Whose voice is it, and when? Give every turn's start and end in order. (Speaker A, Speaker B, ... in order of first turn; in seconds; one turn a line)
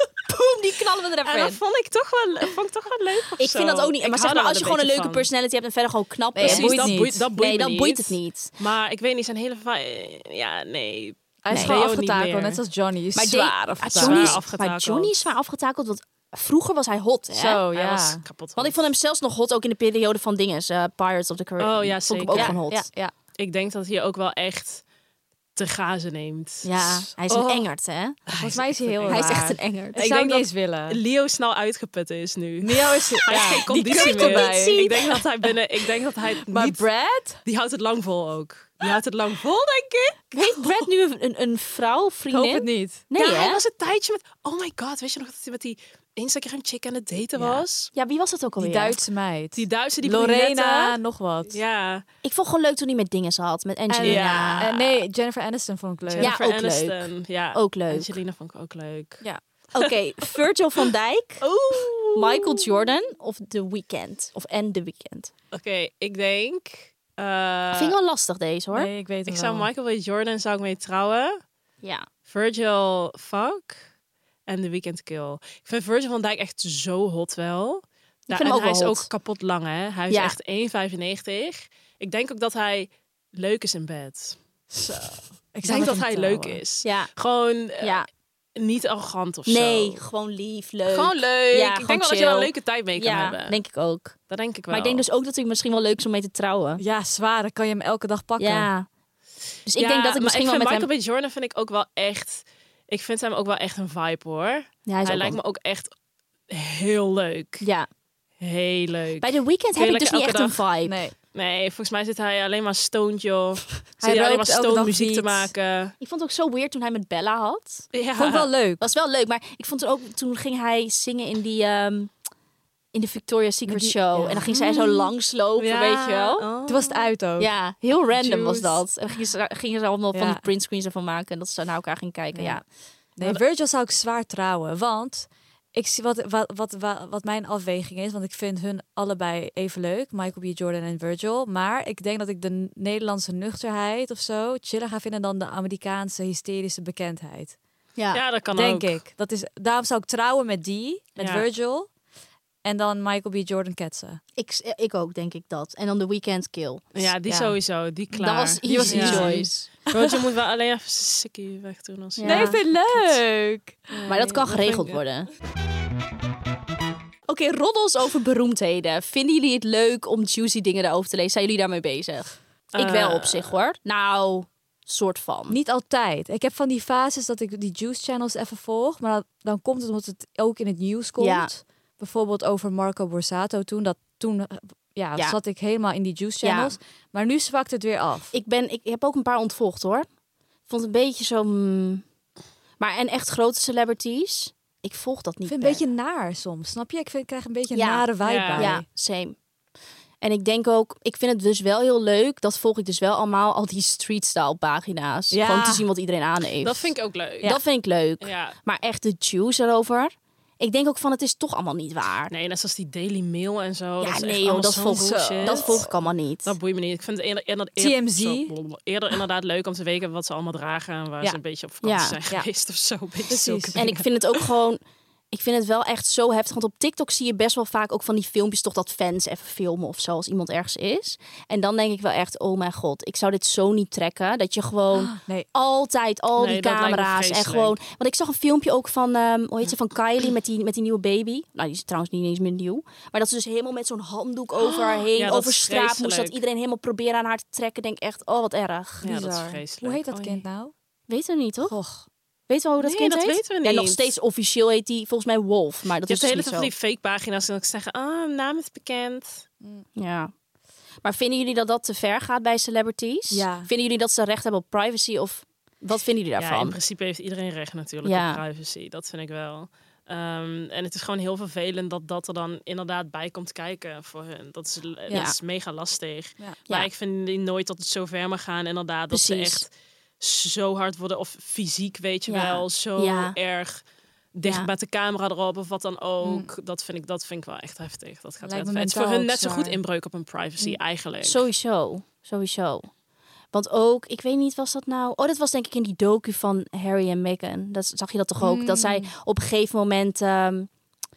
Speaker A: 0.3-1.6
Speaker B: 1.2-5.2
Speaker A: 3.4-8.5
Speaker C: 6.3-7.3
Speaker B: 6.4-12.6
Speaker C: 11.4-14.4
Speaker A: 11.5-11.8
Speaker A: 13.1-17.6
Speaker B: 13.9-15.3
Speaker C: 17.3-18.2
Speaker B: 17.7-18.9
Speaker A: 18.6-22.9
Speaker B: 21.6-22.6
Speaker C: 22.3-23.1
Speaker B: 23.4-24.8
Speaker B: 25.6-27.5
Speaker A: 26.6-28.2
Speaker C: 27.3-27.6
Speaker C: 28.3-31.0
Speaker B: 28.3-36.9
Speaker A: 29.1-30.0
Speaker C: 32.6-34.9
Speaker A: 33.1-35.2
Speaker C: 36.4-37.4
Speaker B: 37.4-40.7
Speaker A: 40.3-43.6
Speaker C: 42.3-43.0
Speaker B: 43.1-47.9
Speaker A: 47.4-49.0
Speaker C: 48.6-51.6
Speaker B: 49.5-50.9
Speaker B: 51.5-52.0
Speaker A: 52.2-54.9
Speaker C: 53.9-56.3
Speaker B: 54.0-54.7
Speaker B: 56.1-59.2
Speaker A: 56.1-58.1
Speaker A: 59.7-65.3
Speaker B: 61.4-62.9
Speaker B: 65.5-67.9
Speaker A: 67.7-68.9
Speaker C: 68.7-69.7
Speaker B: 69.3-71.4
Speaker A: 71.8-72.1
Speaker B: 72.2-73.8
Speaker B: 74.5-88.0
Speaker A: 78.3-79.1
Speaker A: 80.1-80.3
Speaker C: 85.5-86.6
Speaker A: 86.8-87.1
Speaker A: 87.8-88.1
Speaker B: 88.6-90.0
Speaker A: 89.5-94.2
Speaker B: 90.9-93.6
Speaker B: 94.3-95.0
Speaker A: 94.7-96.8
Speaker C: 96.8-98.7
Speaker A: 98.4-98.9
Speaker A: 99.7-100.9
Speaker B: 99.7-105.9
Speaker A: 104.8-105.4
Speaker B: 106.5-107.7
Speaker A: 107.6-107.9
Speaker B: 108.4-110.6
Speaker A: 109.2-111.0
Speaker C: 110.8-111.1
Speaker B: 111.3-115.9
Speaker C: 114.0-115.5
Speaker A: 116.0-117.9
Speaker B: 117.9-118.5
Speaker C: 118.2-118.8
Speaker A: 118.8-122.1
Speaker A: 122.9-126.5
Speaker C: 123.7-124.5
Speaker B: 124.3-127.1
Speaker C: 126.7-127.5
Speaker A: 127.4-132.6
Speaker C: 128.1-128.8
Speaker C: 130.1-130.4
Speaker C: 132.3-132.6
Speaker C: 133.2-147.6
Speaker A: 147.9-148.2
Speaker B: 148.1-149.0
Speaker C: 148.5-151.9
Speaker B: 151.2-151.4
Speaker C: 152.6-154.2
Speaker A: 154.4-157.6
Speaker B: 156.9-163.2
Speaker A: 158.1-159.7
Speaker C: 158.6-159.9
Speaker A: 162.2-162.6
Speaker C: 162.2-164.4
Speaker B: 163.9-165.0
Speaker A: 164.1-165.3
Speaker A: 167.3-175.6
Speaker B: 172.7-173.6
Speaker C: 175.5-188.3
Speaker A: 181.2-181.5
Speaker A: 186.4-186.8
Speaker A: 188.3-190.1
Speaker A: 190.7-192.0
Speaker A: 192.8-195.8
Speaker C: 195.4-198.8
Speaker A: 197.7-199.3
Speaker B: 198.2-198.7
Speaker A: 200.2-212.3
Speaker C: 205.3-205.8
Speaker B: 206.6-207.6
Speaker B: 208.2-208.6
Speaker B: 212.3-215.9
Speaker A: 214.0-216.6
Speaker C: 214.9-215.9
Speaker B: 216.4-224.5
Speaker C: 217.8-218.5
Speaker A: 221.8-222.2
Speaker C: 223.3-223.8
Speaker A: 223.8-249.1
Speaker C: 234.9-235.5
Speaker B: 236.3-237.8
Speaker B: 244.6-246.4
Speaker C: 249.0-250.7
Speaker B: 249.0-250.4
Speaker A: 251.1-251.7
Speaker C: 251.7-252.1
Speaker A: 252.5-256.7
Speaker B: 252.8-254.1
Speaker B: 256.0-259.4
Speaker A: 259.9-260.3
Speaker A: 261.0-266.8
Speaker C: 263.3-263.7
Speaker B: 266.4-283.8
Speaker A: 268.0-268.4
Speaker A: 275.1-275.4
Speaker A: 279.1-279.6
Speaker A: 282.3-283.4
Speaker B: 284.3-291.4
Speaker A: 284.4-284.7
Speaker C: 286.2-286.5
Speaker C: 288.4-289.8
Speaker A: 291.2-292.9
Speaker A: 293.5-300.7
Speaker C: 298.4-299.1